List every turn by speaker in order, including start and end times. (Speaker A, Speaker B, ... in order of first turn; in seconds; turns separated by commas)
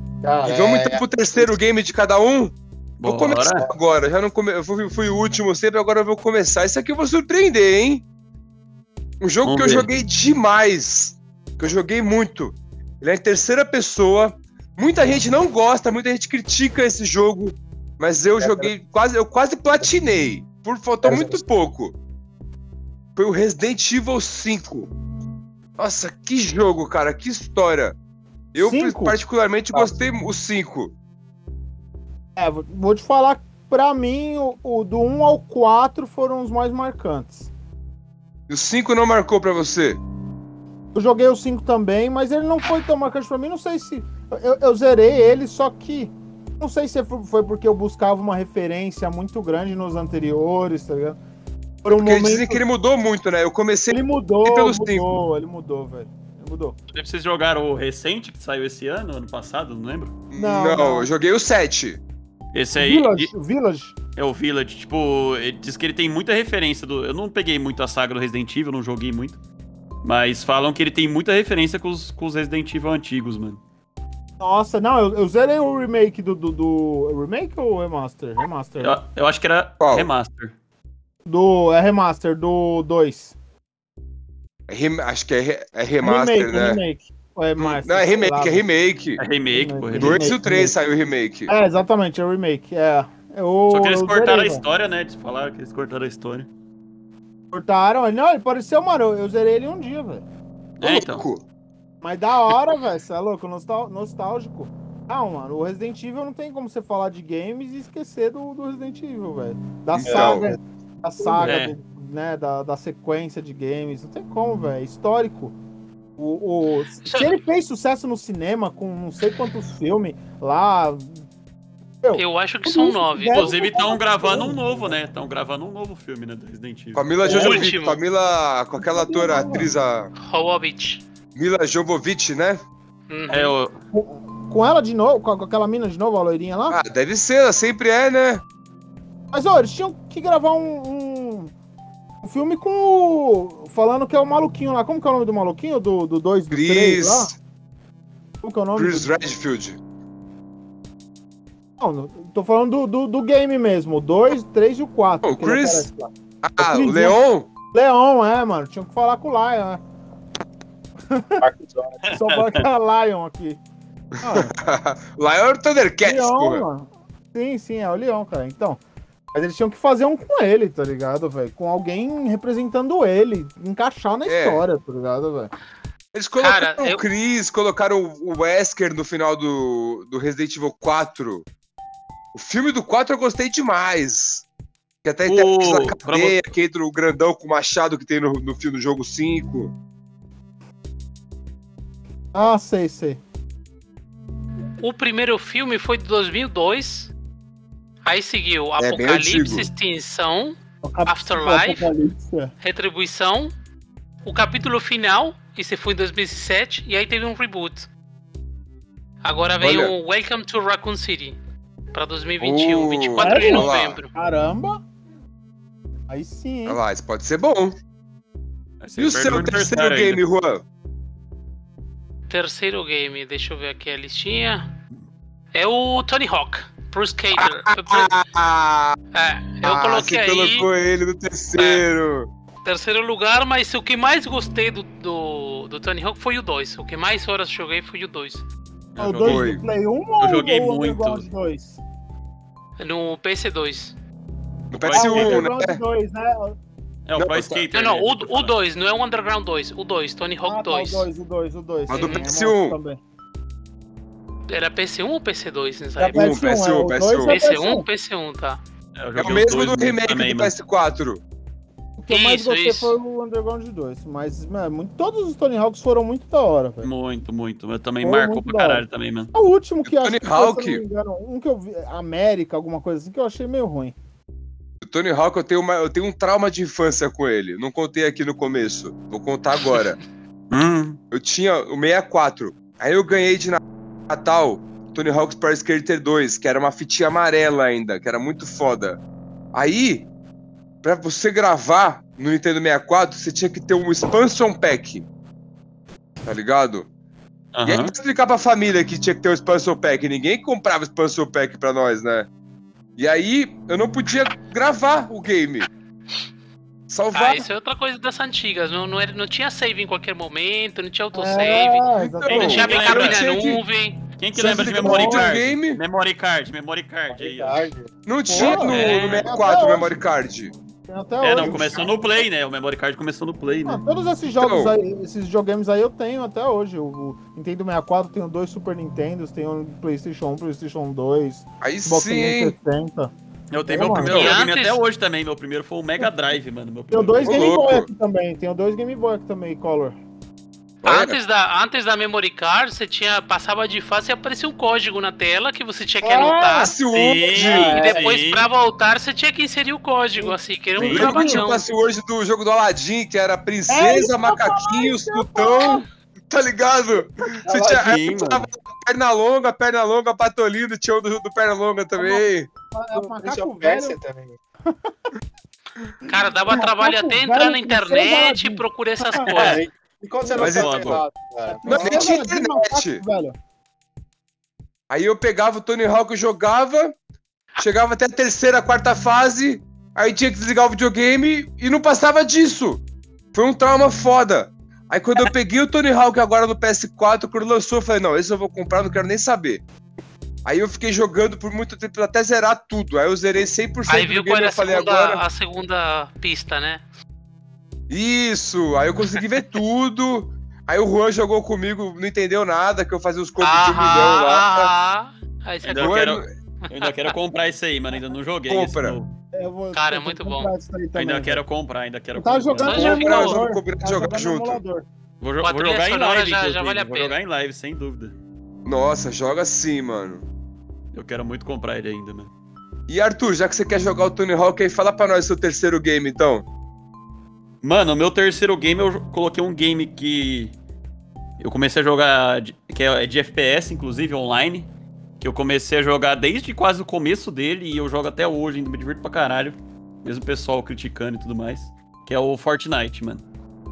Speaker A: 0.2-1.5, Speaker B: 0.4-8.0, Speaker C: 3.0-3.6, Speaker B: 9.2-21.9, Speaker C: 9.4-9.9, Speaker A: 18.4-18.7, Speaker A: 21.0-21.4, Speaker B: 23.1-24.9, Speaker B: 25.8-27.9, Speaker B: 28.5-30.9, Speaker D: 28.6-29.2, Speaker D: 32.4-37.5, Speaker B: 38.5-40.0, Speaker D: 40.9-51.2, Speaker D: 51.8-52.6, Speaker B: 51.9-55.1, Speaker D: 53.9-56.8, Speaker C: 56.9-60.1, Speaker B: 60.3-62.0, Speaker D: 60.3-61.1, Speaker C: 62.5-63.3, Speaker D: 62.8-63.9, Speaker C: 64.2-69.4, Speaker C: 70.0-73.6, Speaker D: 74.4-79.0, Speaker C: 78.8-80.5, Speaker B: 79.8-80.1, Speaker D: 81.2-83.3, Speaker B: 84.7-86.8, Speaker D: 86.0-88.7, Speaker B: 87.6-89.2, Speaker C: 89.2-90.3, Speaker D: 89.5-90.7, Speaker B: 90.0-91.5, Speaker D: 91.5-94.6, Speaker C: 93.7-96.5, Speaker D: 97.5-100.2, Speaker C: 100.8-101.2, Speaker B: 100.8-101.4, Speaker D: 102.0-115.5, Speaker B: 110.0-110.5, Speaker A: 110.1-110.4, Speaker C: 111.4-111.8, Speaker D: 116.2-121.1, Speaker E: 117.0-117.3, Speaker D: 122.0-125.0, Speaker E: 122.2-123.7, Speaker C: 123.3-127.6, Speaker B: 127.0-130.1, Speaker E: 127.2-128.0, Speaker D: 128.8-129.7, Speaker E: 130.2-131.0, Speaker B: 131.3-132.6, Speaker E: 133.1-133.5, Speaker C: 133.3-133.8, Speaker D: 133.9-136.8, Speaker B: 136.7-138.4, Speaker D: 139.3-141.5, Speaker D: 142.2-147.3, Speaker B: 146.5-147.3, Speaker D: 148.4-149.1, Speaker B: 148.8-149.8, Speaker D: 151.8-157.2, Speaker B: 155.2-155.9, Speaker B: 156.4-157.5, Speaker D: 157.7-159.8, Speaker D: 161.1-161.4, Speaker A: 161.4-162.0, Speaker C: 162.0-162.6, Speaker D: 162.1-163.6, Speaker D: 164.2-164.5, Speaker B: 164.2-166.6, Speaker D: 166.0-168.8, Speaker D: 169.3-175.5, Speaker B: 174.3-174.6, Speaker B: 176.1-181.4, Speaker E: 176.4-177.0, Speaker B: 182.3-184.4, Speaker B: 185.0-189.7, Speaker C: 185.3-186.4, Speaker D: 192.3-193.2, Speaker E: 194.8-197.1, Speaker E: 198.0-201.9, Speaker B: 198.8-199.7, Speaker D: 200.8-202.5, Speaker E: 202.6-203.5, Speaker E: 204.2-207.9, Speaker E: 209.2-211.4, Speaker B: 209.6-209.9, Speaker E: 211.9-214.1, Speaker B: 212.4-214.0, Speaker D: 213.2-214.8, Speaker D: 216.1-216.8, Speaker B: 216.7-217.8, Speaker C: 218.8-220.2, Speaker B: 219.0-220.6, Speaker E: 222.3-224.7, Speaker E: 225.5-228.1, Speaker B: 227.4-229.0, Speaker E: 229.1-230.7, Speaker B: 229.6-232.3, Speaker E: 231.5-231.8, Speaker E: 232.6-238.4, Speaker C: 238.9-239.6, Speaker D: 239.0-241.8, Speaker B: 239.2-239.6, Speaker C: 240.2-241.2, Speaker E: 242.8-243.9, Speaker B: 244.7-245.8, Speaker C: 244.8-245.5, Speaker D: 244.9-246.6, Speaker C: 247.1-248.5, Speaker B: 247.2-247.7, Speaker E: 247.7-251.1, Speaker D: 250.4-253.0, Speaker B: 251.9-252.8, Speaker E: 251.9-252.2, Speaker E: 254.5-256.4, Speaker D: 256.0-257.9, Speaker B: 256.1-257.4, Speaker E: 257.2-258.6, Speaker C: 259.0-260.5, Speaker B: 259.2-261.2, Speaker D: 262.0-266.9, Speaker E: 262.1-262.9, Speaker C: 266.8-269.3, Speaker D: 268.0-273.9, Speaker B: 269.8-270.8, Speaker B: 274.8-280.0, Speaker C: 280.5-281.0, Speaker B: 281.1-289.0, Speaker B: 289.5-290.1, Speaker B: 290.8-295.1, Speaker B: 296.2-296.9, Speaker C: 297.5-297.9, Speaker B: 297.6-302.3, Speaker B: 303.0-305.7, Speaker B: 306.9-307.5, Speaker E: 307.1-314.0, Speaker D: 311.1-312.7, Speaker B: 312.0-313.6, Speaker C: 312.3-313.2, Speaker C: 314.2-317.6, Speaker B: 314.3-315.8, Speaker D: 314.6-315.4, Speaker A: 317.1-317.9, Speaker B: 318.1-320.5, Speaker D: 318.3-320.0, Speaker C: 318.4-319.2, Speaker D: 320.9-321.9, Speaker C: 321.2-323.8, Speaker A: 321.4-321.9, Speaker D: 323.6-333.1, Speaker B: 324.4-324.7, Speaker B: 331.6-332.5, Speaker C: 333.5-337.4, Speaker D: 333.7-334.3, Speaker E: 334.1-334.8, Speaker D: 336.9-340.0, Speaker B: 337.2-337.9, Speaker B: 340.8-341.2, Speaker E: 340.8-351.7, Speaker D: 346.0-346.5, Speaker B: 346.4-347.9, Speaker C: 346.9-348.5, Speaker C: 350.8-351.4, Speaker B: 350.8-362.5, Speaker D: 351.0-351.4, Speaker D: 353.7-355.8, Speaker A: 357.4-358.0, Speaker C: 357.7-358.4, Speaker D: 361.9-364.0, Speaker A: 362.9-364.4, Speaker E: 366.1-369.6, Speaker D: 366.5-369.4, Speaker A: 369.3-372.1, Speaker B: 370.4-371.0, Speaker C: 370.4-371.0, Speaker D: 371.5-373.4, Speaker B: 371.6-373.0, Speaker B: 374.9-376.9, Speaker B: 377.6-382.8, Speaker B: 383.3-389.6, Speaker B: 390.4-395.2, Speaker E: 393.9-396.8, Speaker B: 397.9-404.7, Speaker E: 403.4-406.9, Speaker C: 405.6-409.1, Speaker B: 405.8-406.3, Speaker B: 408.5-408.9, Speaker D: 409.3-411.4, Speaker E: 409.7-410.5, Speaker C: 410.9-413.0, Speaker D: 412.1-414.9, Speaker E: 412.6-413.4, Speaker B: 412.7-414.6, Speaker C: 415.2-418.1, Speaker E: 415.4-417.1, Speaker B: 418.6-420.2, Speaker C: 420.9-422.3, Speaker B: 422.9-426.4, Speaker C: 427.6-430.5, Speaker C: 431.4-434.7, Speaker C: 435.2-443.2